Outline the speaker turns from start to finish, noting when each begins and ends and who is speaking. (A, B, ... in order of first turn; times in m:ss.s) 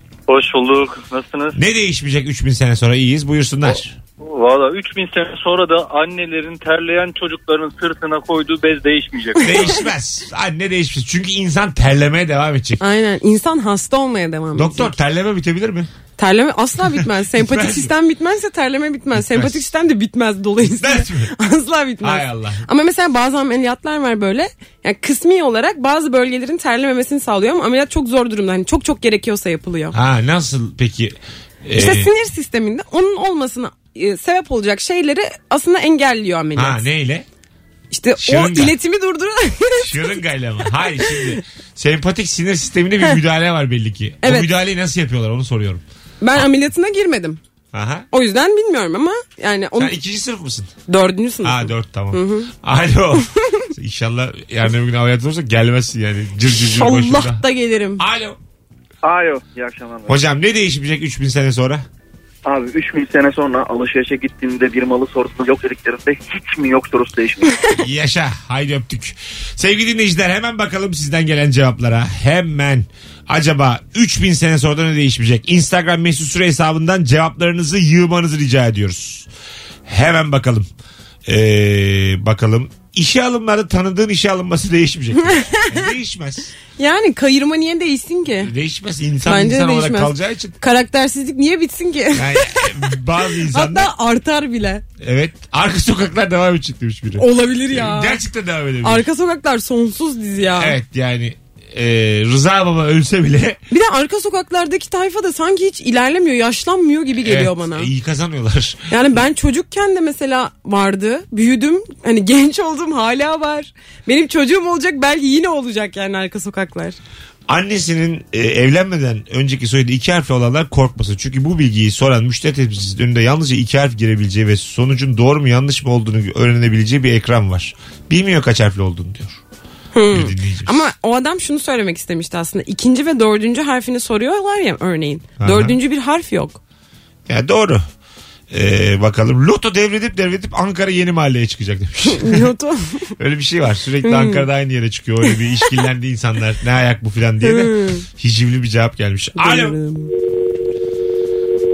0:00.3-0:01.5 A
0:01.5-0:04.0 B
0:04.2-0:09.4 A
0:09.4-0:12.8 B
0:12.8-0:14.9 C
0:14.6-0:15.9 B
0:16.2-0:30.0 C
0:17.3-0:17.9 B
0:19.1-0:19.7 B
0:20.6-0:21.3 B
0:22.0-0:22.6 B
0:29.9-0:32.1 B
0:31.8-0:36.8 C
0:36.6-0:37.3 B
0:37.9-0:40.2 C
0:38.2-0:38.7 B
0:39.8-0:45.8 B
0:41.0-0:41.4 C
0:44.2-0:44.5 C
0:46.2-0:47.4 C
0:47.7-0:48.1 B
0:48.1-0:49.9 C
0:49.8-0:50.7 B
0:50.9-0:52.5 C
0:51.4-0:57.4 B
0:53.4-0:53.7 C
0:56.6-0:58.0 C
0:58.0-0:58.4 B
0:59.1-1:00.1 D
1:00.1-1:01.8 B
1:02.5-1:07.4 D
1:07.8-1:19.3 B
1:19.9-1:20.7 B
1:21.3-1:26.5 B
1:25.2-1:25.9 C
1:26.8-1:28.5 C
1:28.4-1:30.6 B
1:29.2-1:32.9 C
1:32.1-1:33.9 B
1:33.5-1:34.8 C
1:35.0-1:39.1 B
1:37.2-1:38.2 C
1:38.8-1:40.8 C
1:40.5-1:43.6 B
1:43.7-1:47.9 C
1:47.2-1:48.9 B
1:48.9-1:57.0 C
1:57.5-2:09.4 B
2:09.9-2:16.6 C
2:10.1-2:10.9 B
2:15.4-2:15.8 B
2:17.3-2:17.9 B
2:18.5-2:22.5 B
2:22.0-2:23.1 C
2:23.2-2:29.8 B
2:24.0-2:24.4 C
2:27.4-2:28.0 C
2:29.4-2:30.1 C